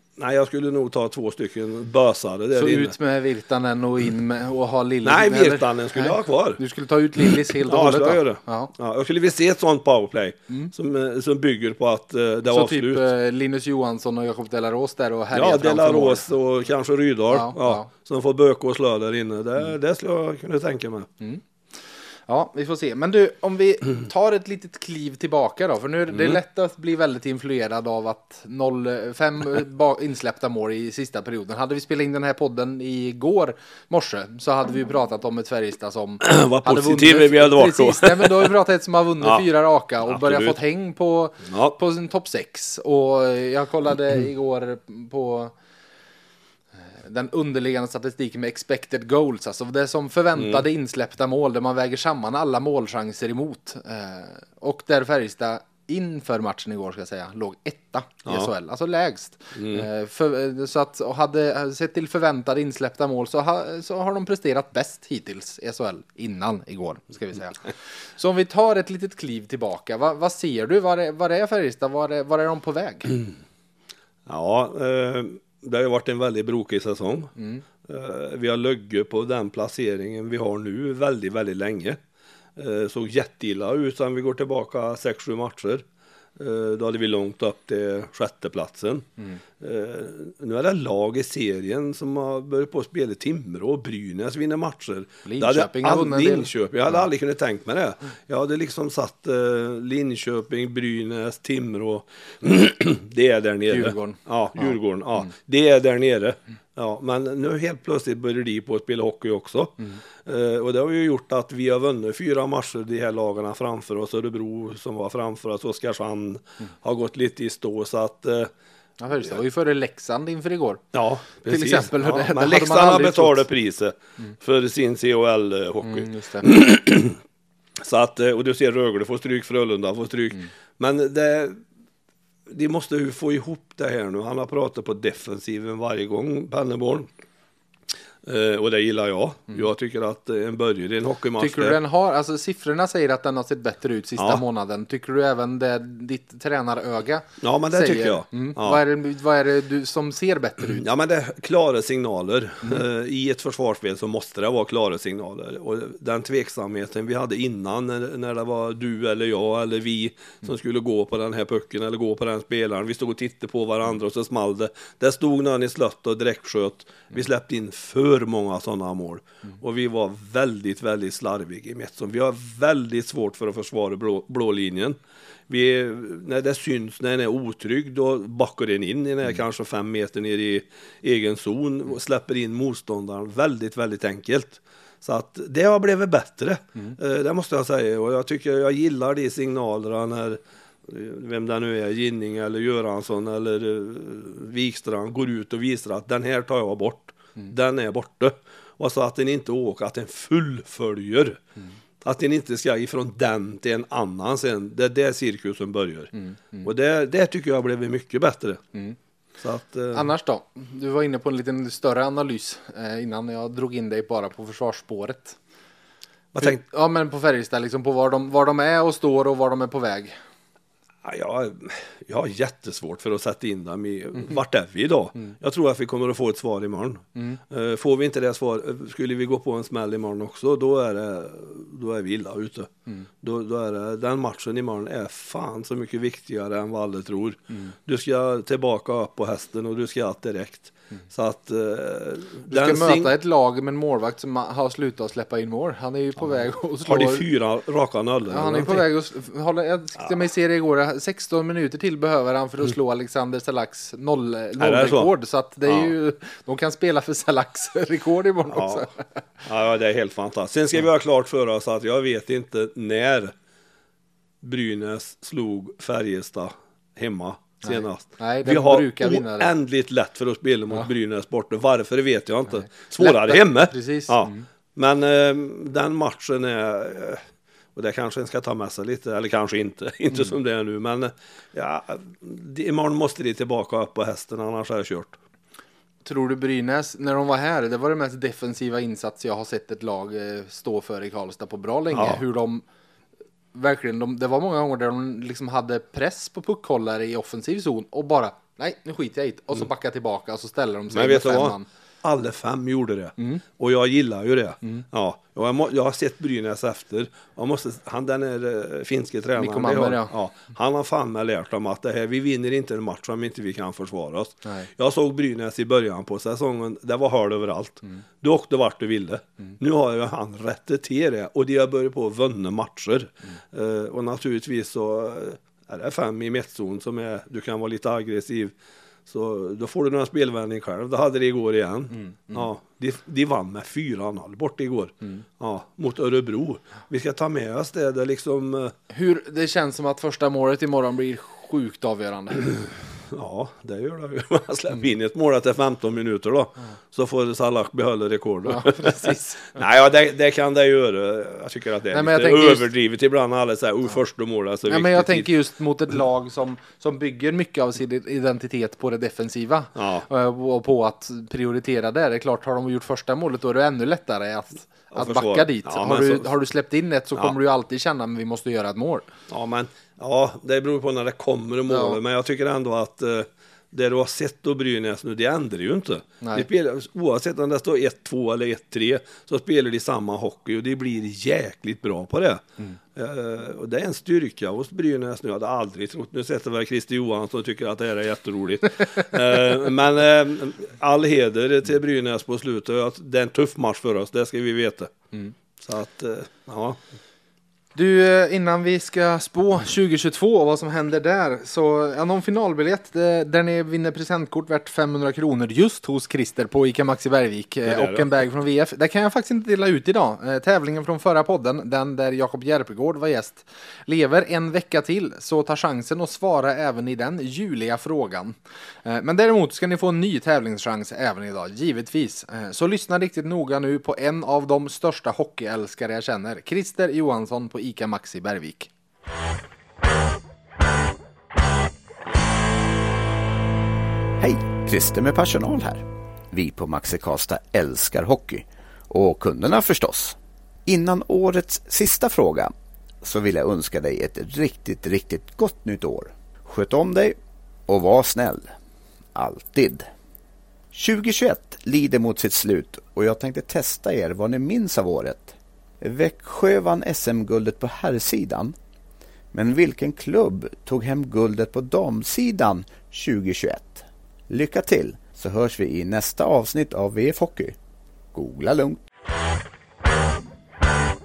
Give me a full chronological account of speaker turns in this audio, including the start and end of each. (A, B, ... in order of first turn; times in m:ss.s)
0:00.2-0:02.9 A
0:02.5-0:08.7 B
0:05.0-0:06.6 A
0:07.6-0:13.0 A
0:12.5-0:16.3 B
0:15.3-0:21.1 A
0:17.3-0:17.9 B
0:22.3-0:45.5 B
0:36.2-0:38.5 A
0:40.0-0:40.6 A
0:41.5-0:41.8 A
0:46.8-1:13.2 B
0:50.4-0:50.6 A
0:59.5-0:59.9 A
1:14.2-1:17.3 A
1:17.4-1:17.6 B
1:17.8-1:22.0 A
1:22.6-1:25.8 A
1:26.4-1:29.1 A
1:29.6-1:58.5 A
1:35.2-1:36.5 B
1:43.7-1:45.2 B
1:59.0-2:00.8 B
2:00.9-2:07.2 A
2:01.4-2:03.4 B
2:05.8-2:06.5 B
2:07.8-2:11.6 A
2:12.5-2:17.1 A
2:18.2-2:21.8 A
2:21.4-2:30.8 B
2:27.4-2:28.8 A
2:30.7-2:55.0 A
2:55.5-3:21.4 A
3:22.0-3:26.1 A
3:26.2-3:26.6 B
3:26.6-3:28.6 A
3:29.4-3:30.1 A
3:29.9-3:35.4 B
3:36.3-3:36.6 A
3:36.4-3:40.1 B
3:41.0-4:03.1 A
4:02.5-4:07.2 B
4:06.8-4:08.9 A
4:08.3-4:19.0 B
4:14.6-4:15.1 A
4:15.7-4:15.9 A
4:18.5-4:18.9 A
4:19.4-4:23.3 A
4:24.4-4:45.2 A
4:27.6-4:29.5 B
4:33.0-4:34.4 B
4:46.0-4:52.6 B
4:51.9-4:52.2 A
4:53.5-5:01.7 B
5:00.9-5:28.5 A
5:03.2-5:03.4 B
5:09.4-5:10.1 B
5:29.0-5:38.7 A
5:32.0-5:32.5 B
5:38.9-5:42.6 B
5:43.1-5:55.3 A
5:48.5-5:49.6 B
5:51.9-5:52.6 B
5:54.7-6:09.1 B
5:59.7-6:00.0 A
6:04.9-6:06.3 A
6:09.3-6:22.4 A
6:11.7-6:12.0 B
6:16.2-6:16.5 B
6:22.9-6:34.9 A
6:35.6-6:36.8 A
6:37.7-7:08.7 B
6:47.6-6:48.1 A
7:14.2-7:27.2 C
7:27.7-7:28.5 C
7:29.1-7:29.9 C
7:30.7-7:38.5 C
7:39.3-7:47.5 C
7:48.1-7:48.8 C